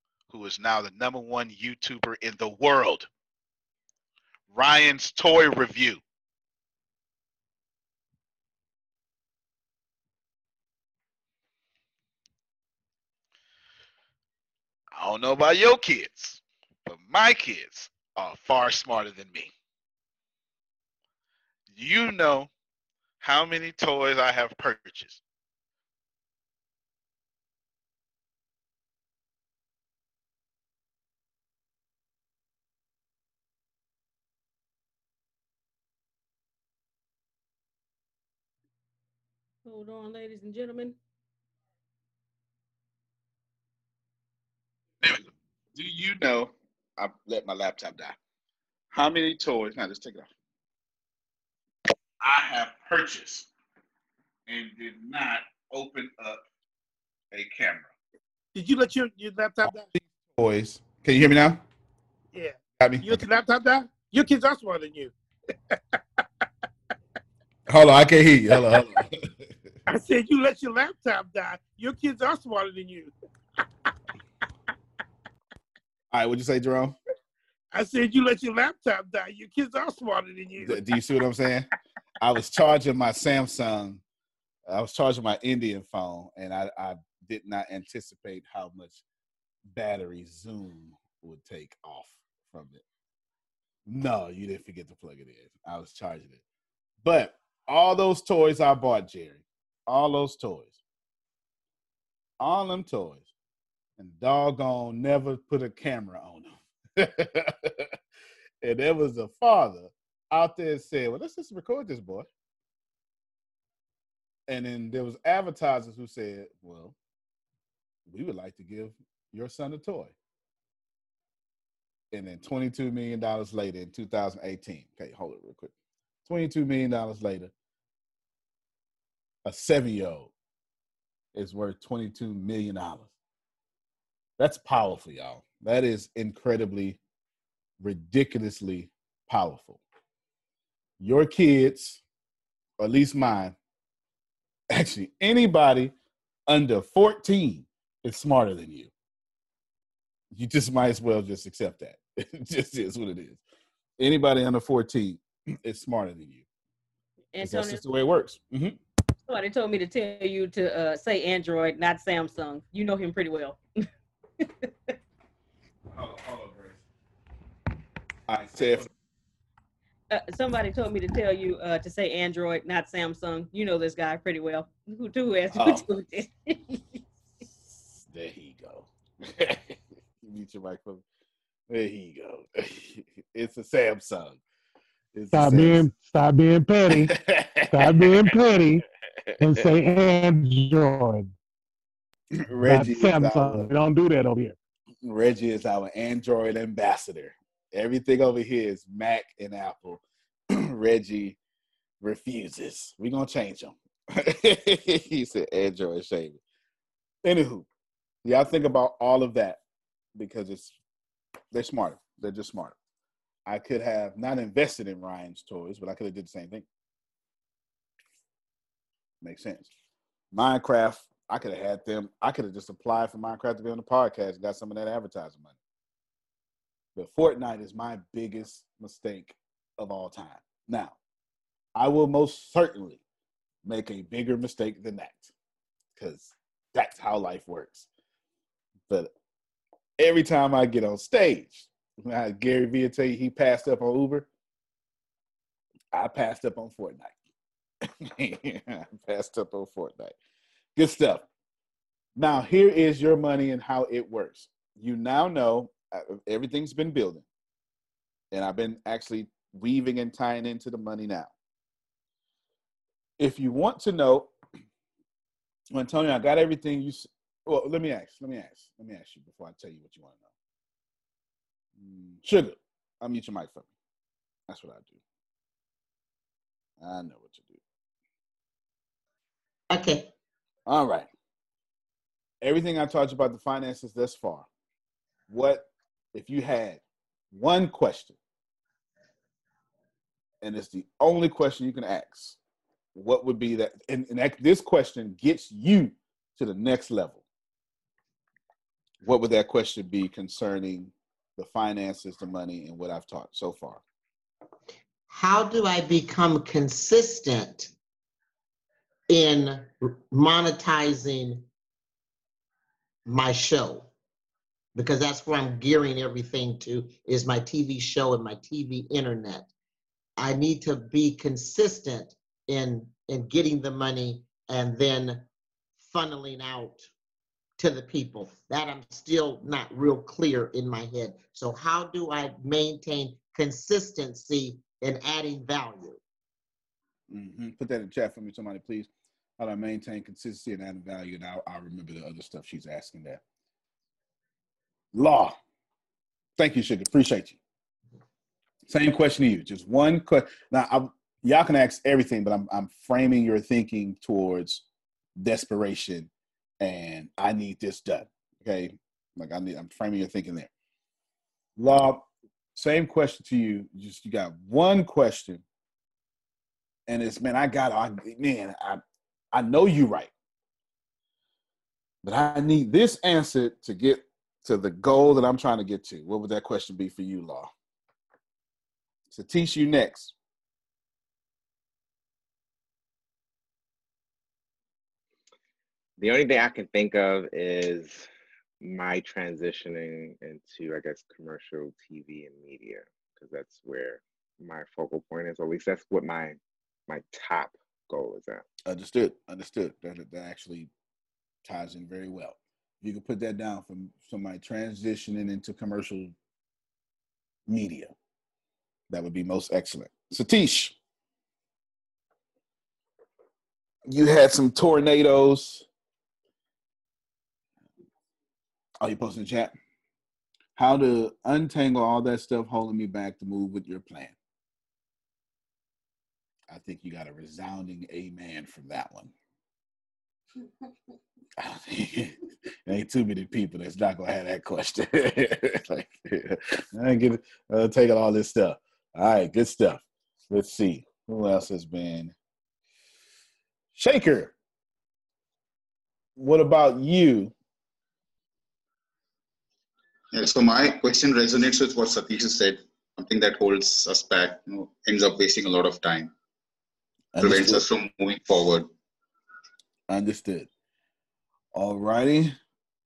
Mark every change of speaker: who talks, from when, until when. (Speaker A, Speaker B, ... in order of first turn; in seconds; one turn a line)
Speaker A: 0.3-3.1
Speaker A: 4.5-6.0
Speaker A: 14.9-19.5
Speaker A: 21.7-22.5
Speaker A: 23.2-25.2
Speaker B: 39.6-41.0
Speaker A: 45.0-48.2
Speaker A: 48.9-50.3
Speaker A: 52.2-53.5
Speaker A: 54.5-56.4
Speaker A: 57.3-57.9
Speaker C: 58.5-59.9
Speaker A: 59.6-61.6
Speaker C: 62.3-65.1
Speaker A: 62.8-63.2
Speaker A: 67.7-69.3
Speaker C: 69.9-73.1
Speaker A: 76.1-77.0
Speaker C: 77.7-81.0
Speaker A: 80.6-81.7
Speaker A: 82.2-84.0
Speaker A: 84.7-89.0
Speaker A: 89.7-92.8
Speaker A: 93.9-96.4
Speaker A: 97.0-100.8
Speaker A: 102.4-103.3
Speaker A: 104.0-107.9
Speaker A: 108.6-112.3
Speaker A: 114.5-117.0
Speaker A: 118.1-120.2
Speaker A: 122.1-125.7
Speaker A: 126.3-127.5
Speaker A: 129.4-130.3
Speaker A: 131.3-133.1
Speaker A: 134.4-137.0
Speaker A: 137.8-139.8
Speaker A: 141.0-142.0
Speaker A: 142.8-143.6
Speaker A: 144.7-145.9
Speaker A: 146.5-148.9
Speaker A: 150.3-153.4
Speaker A: 154.0-156.4
Speaker B: 157.3-157.8
Speaker A: 157.4-158.8
Speaker B: 159.3-163.6
Speaker A: 165.9-166.8
Speaker A: 168.3-168.9
Speaker B: 170.1-176.8
Speaker A: 175.5-175.9
Speaker A: 177.7-181.0
Speaker A: 181.7-184.4
Speaker A: 185.1-185.9
Speaker D: 185.3-187.1
Speaker A: 186.9-188.7
Speaker D: 187.7-188.8
Speaker A: 189.3-189.8
Speaker D: 189.4-191.3
Speaker A: 192.5-193.7
Speaker D: 192.6-194.6
Speaker A: 195.0-201.4
Speaker A: 202.0-206.4
Speaker A: 207.2-207.7
Speaker A: 208.2-209.6
Speaker A: 210.2-210.8
Speaker A: 211.5-212.8
Speaker A: 213.5-216.7
Speaker A: 219.2-219.7
Speaker A: 220.3-225.6
Speaker A: 227.0-231.0
Speaker A: 231.8-233.0
Speaker A: 233.6-235.3
Speaker A: 236.0-237.9
Speaker A: 240.0-244.3
Speaker A: 245.9-247.2
Speaker A: 247.8-250.2
Speaker A: 250.8-251.3
Speaker A: 252.2-257.2
Speaker A: 258.3-261.3
Speaker A: 263.2-264.3
Speaker A: 265.7-270.3
Speaker A: 271.8-273.7
Speaker A: 274.5-275.0
Speaker A: 276.8-277.6
Speaker E: 279.7-280.1
Speaker A: 280.7-281.1
Speaker A: 282.4-284.5
Speaker A: 285.3-288.2
Speaker A: 290.4-292.4
Speaker A: 292.9-297.2
Speaker A: 299.0-303.8
Speaker E: 305.1-307.7
Speaker E: 309.1-311.5
Speaker E: 313.1-313.9
Speaker E: 314.8-319.5
Speaker E: 320.2-325.3
Speaker E: 325.8-326.9
Speaker E: 327.6-336.0
Speaker A: 337.1-343.2
Speaker A: 344.9-345.4
Speaker A: 346.4-347.4
Speaker A: 348.7-354.6
Speaker A: 355.2-360.5
Speaker A: 361.6-365.4
Speaker A: 366.9-370.1
Speaker A: 372.0-377.5
Speaker A: 379.1-380.1
Speaker F: 386.0-388.1
Speaker F: 388.6-398.5
Speaker A: 398.6-400.7
Speaker A: 401.4-406.1
Speaker A: 407.5-407.9
Speaker A: 408.9-410.8
Speaker A: 413.9-415.7
Speaker A: 418.8-419.5
Speaker A: 420.6-424.2
Speaker A: 426.5-429.1
Speaker A: 431.4-442.1
Speaker A: 443.7-444.4
Speaker A: 446.2-447.3
Speaker G: 450.1-456.1
Speaker A: 457.1-457.6
Speaker G: 457.2-458.7
Speaker A: 459.9-460.5
Speaker A: 461.5-462.4